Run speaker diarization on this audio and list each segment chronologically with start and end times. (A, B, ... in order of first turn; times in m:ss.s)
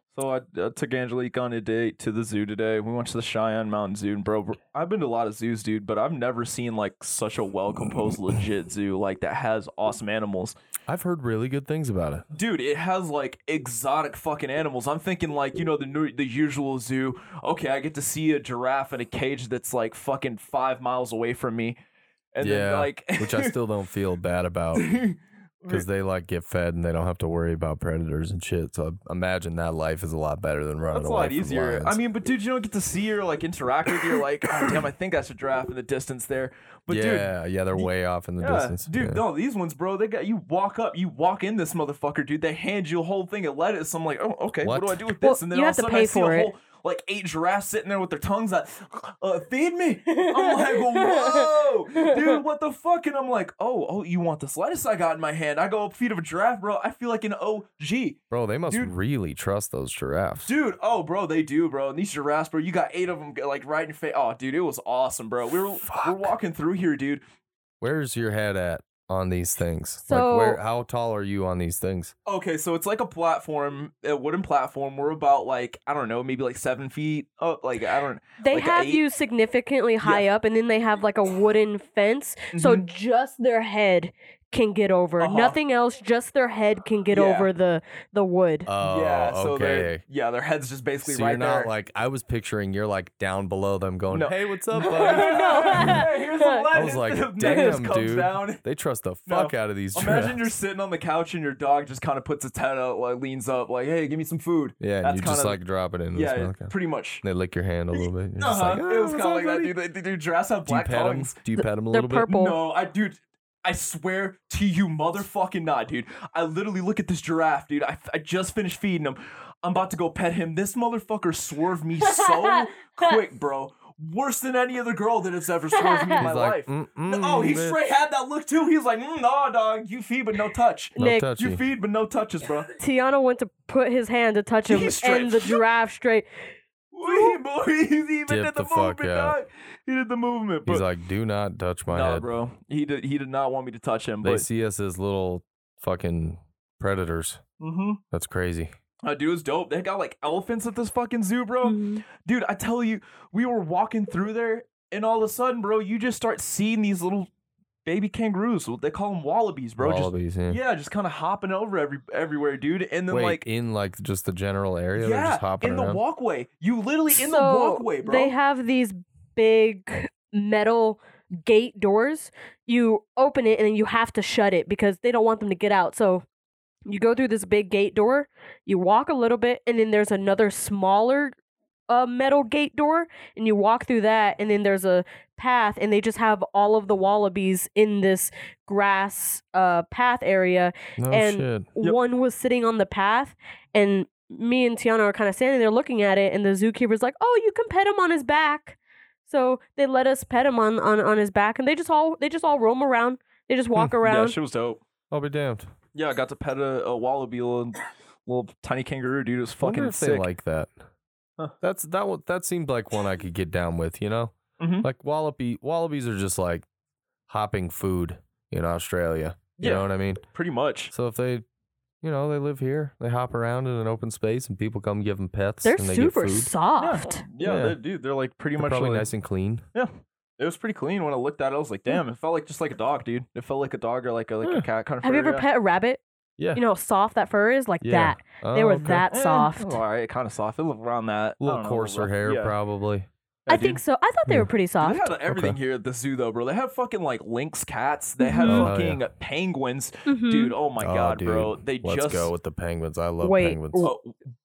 0:00.1-0:10.6 A
0:10.9-0:12.2 B
0:12.3-0:21.8 A
0:22.3-0:23.5 A
0:22.4-0:24.9 B
0:24.8-0:25.8 A
0:25.7-0:32.0 B
0:30.9-0:58.9 A
0:36.9-0:39.2 B
0:44.6-0:45.0 B
0:45.2-0:46.5 C
0:50.1-0:52.2 C
0:58.3-1:00.5 B
1:00.4-1:07.2 A
1:05.8-1:06.3 B
1:07.8-1:12.1 B
1:10.0-1:10.6 C
1:12.2-1:19.0 A
1:18.4-1:28.7 C
1:22.5-1:22.9 A
1:25.2-1:25.6 A
1:27.1-1:27.5 A
1:28.6-1:30.0 B
1:28.8-1:31.7 A
1:31.0-1:36.0 B
1:34.1-1:38.6 A
1:34.8-1:36.6 C
1:36.7-1:40.5 B
1:37.4-1:37.7 C
1:39.3-1:45.6 A
1:44.8-1:49.7 B
1:46.1-1:47.2 A
1:47.9-1:51.4 A
1:50.7-1:52.3 B
1:51.9-1:52.6 C
1:52.2-2:12.7 A
2:02.0-2:02.4 C
2:05.8-2:06.2 C
2:06.2-2:07.8 B
2:11.0-2:11.3 C
2:11.0-2:11.6 B
2:12.8-2:16.2 C
2:14.7-2:15.6 A
2:16.9-2:20.9 A
2:17.0-2:17.3 C
2:18.3-2:19.4 B
2:20.6-2:22.2 B
2:21.9-2:24.4 A
2:24.2-2:27.4 B
2:27.6-2:28.0 A
2:28.1-2:28.7 B
2:29.0-2:37.3 A
2:31.6-2:32.0 C
2:37.8-2:43.4 A
2:39.8-2:40.6 B
2:43.1-2:46.0 B
2:45.0-2:48.3 A
2:47.1-2:56.2 C
2:56.9-3:01.4 C
3:01.9-3:24.4 C
3:11.0-3:11.7 B
3:24.0-3:24.8 A
3:25.1-3:25.7 B
3:25.9-3:30.3 A
3:29.6-3:30.7 B
3:31.6-3:36.6 B
3:34.6-3:34.9 A
3:37.3-3:40.2 B
3:39.6-3:40.9 A
3:40.9-3:41.4 B
3:42.0-3:46.5 B
3:45.6-3:47.2 C
3:46.8-3:49.1 A
3:47.4-3:47.8 B
3:48.6-3:49.6 B
3:49.7-3:55.4 A
3:55.0-3:56.0 C
3:56.4-3:56.6 B
3:56.5-3:59.8 C
3:57.8-3:59.0 B
3:58.9-4:02.5 A
4:01.4-4:03.1 B
4:03.5-4:03.8 A
4:03.5-4:05.1 C
4:04.2-4:04.5 B
4:04.8-4:12.3 A
4:05.3-4:05.6 B
4:08.2-4:08.7 C
4:08.5-4:09.0 B
4:10.1-4:10.5 C
4:10.8-4:13.9 B
4:13.2-4:13.9 C
4:13.8-4:14.2 A